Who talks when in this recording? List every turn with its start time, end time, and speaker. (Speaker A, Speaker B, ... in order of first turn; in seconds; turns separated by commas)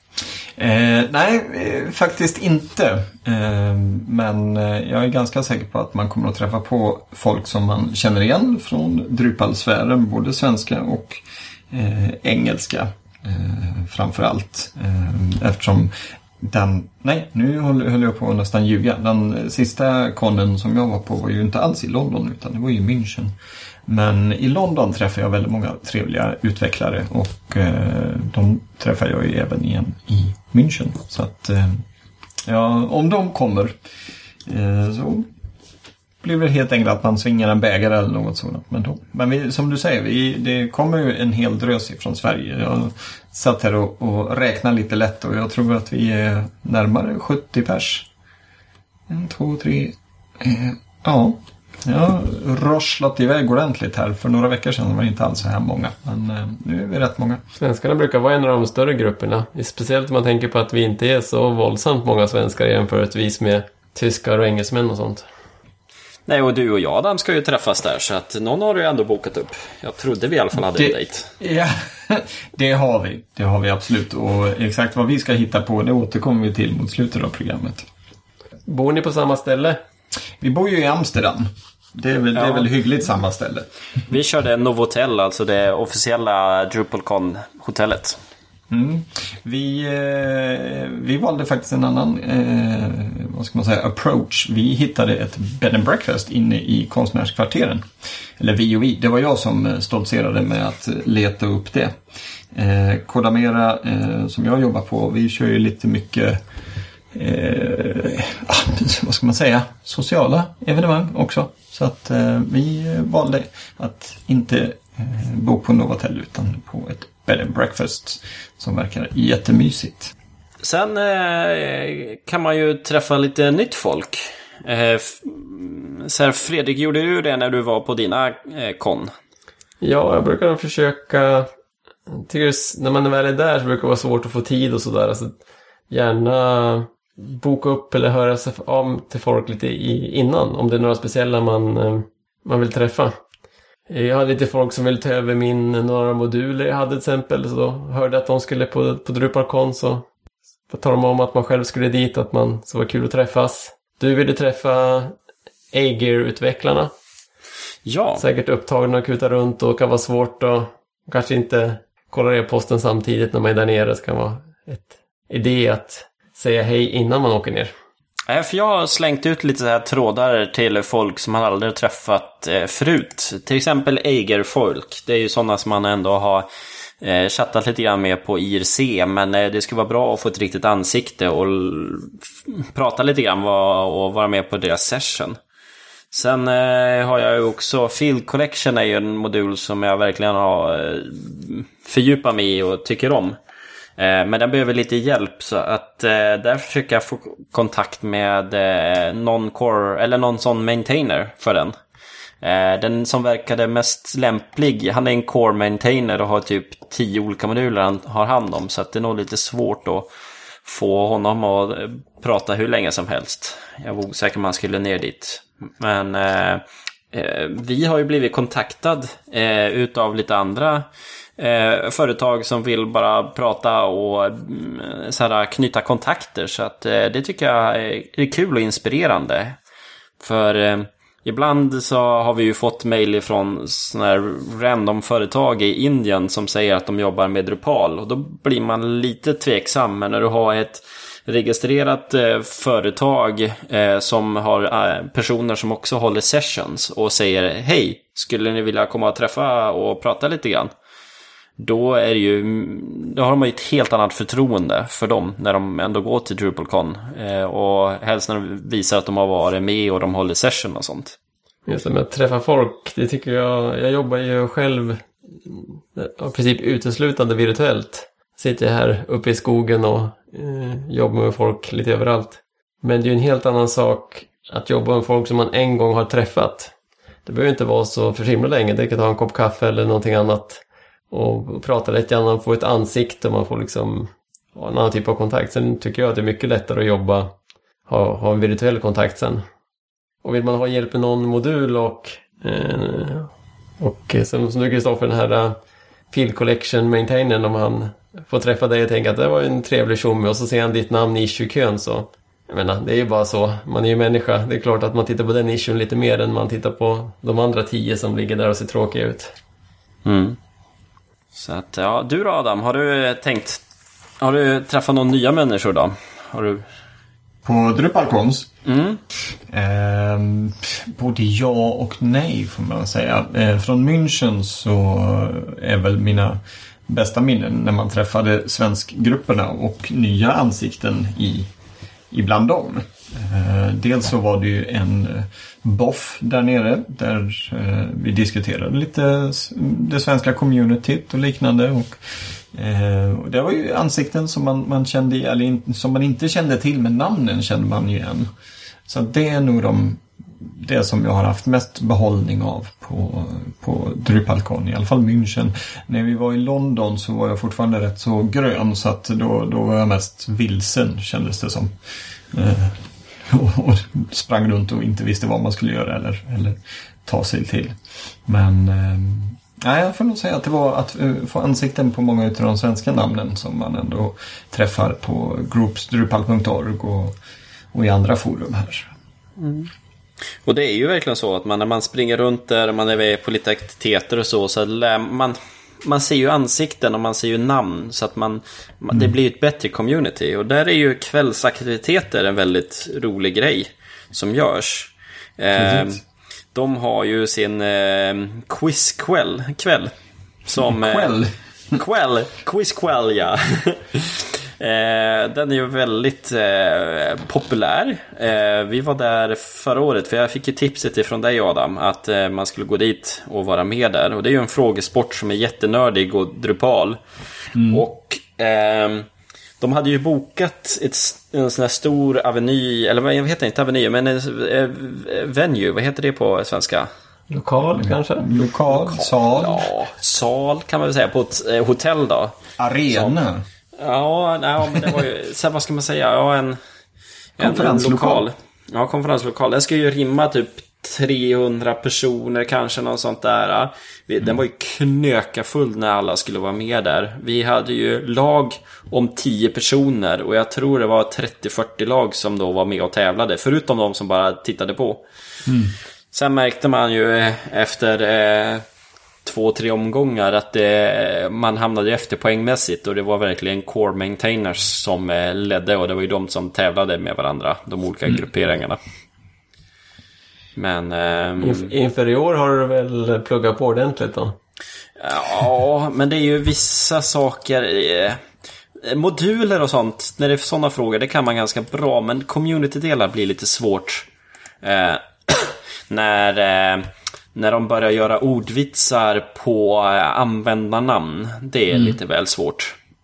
Speaker A: 0.6-23.3, Speaker A: 23.9-31.8, Speaker A: 32.5-33.8, Speaker A: 34.5-35.3, Speaker A: 36.2-48.1, Speaker A: 49.1-57.4, Speaker B: 57.6-65.3, Speaker C: 66.3-71.3, Speaker A: 70.6-77.9, Speaker B: 78.7-79.8, Speaker A: 80.4-83.7, Speaker C: 82.3-82.7, Speaker C: 84.1-88.2, Speaker A: 88.7-97.9, Speaker A: 98.4-102.0, Speaker A: 102.5-106.4, Speaker A: 107.1-120.1, Speaker C: 120.6-129.1, Speaker B: 129.8-131.5, Speaker B: 132.1-135.3, Speaker B: 135.9-143.1, Speaker B: 143.9-150.1, Speaker B: 150.7-155.2, Speaker B: 155.7-156.9, Speaker C: 157.8-158.2, Speaker B: 158.2-167.7, Speaker C: 168.3-176.5, Speaker C: 177.0-185.4, Speaker C: 186.1-193.4, Speaker C: 194.0-201.7, Speaker C: 202.4-210.1, Speaker C: 210.7-220.9, Speaker C: 221.4-229.6, Speaker C: 230.2-250.7, Speaker C: 251.6-261.2, Speaker B: 261.7-276.7, Speaker B: 277.2-287.4, Speaker B: 287.9-289.4, Speaker B: 290.2-295.6, Speaker B: 296.1-309.3, Speaker C: 310.1-310.4, Speaker C: 311.3-313.6, Speaker C: 314.2-316.6, Speaker A: 317.4-318.5, Speaker C: 318.6-319.0, Speaker A: 319.5-331.5, Speaker A: 332.1-342.0, Speaker A: 342.5-348.3, Speaker A: 348.9-361.7, Speaker A: 362.3-367.8, Speaker A: 368.3-377.1, Speaker A: 377.7-378.9, Speaker C: 379.4-379.7, Speaker C: 380.4-396.0, Speaker A: 395.6-396.0, Speaker C: 396.5-399.9, Speaker A: 400.5-401.8, Speaker C: 400.5-401.2, Speaker C: 401.7-417.0, Speaker A: 417.6-417.9, Speaker C: 417.7-419.1, Speaker C: 419.6-426.9, Speaker B: 427.3-428.4, Speaker A: 427.7-429.7, Speaker C: 428.7-432.4, Speaker A: 432.6-433.4, Speaker C: 433.8-436.6, Speaker C: 437.4-455.0, Speaker A: 437.4-438.3, Speaker A: 455.5-455.8, Speaker C: 456.1-458.6, Speaker C: 459.2-468.8, Speaker C: 470.6-471.7, Speaker B: 471.4-474.4, Speaker C: 475.0-478.2, Speaker C: 478.8-484.1, Speaker C: 484.6-492.8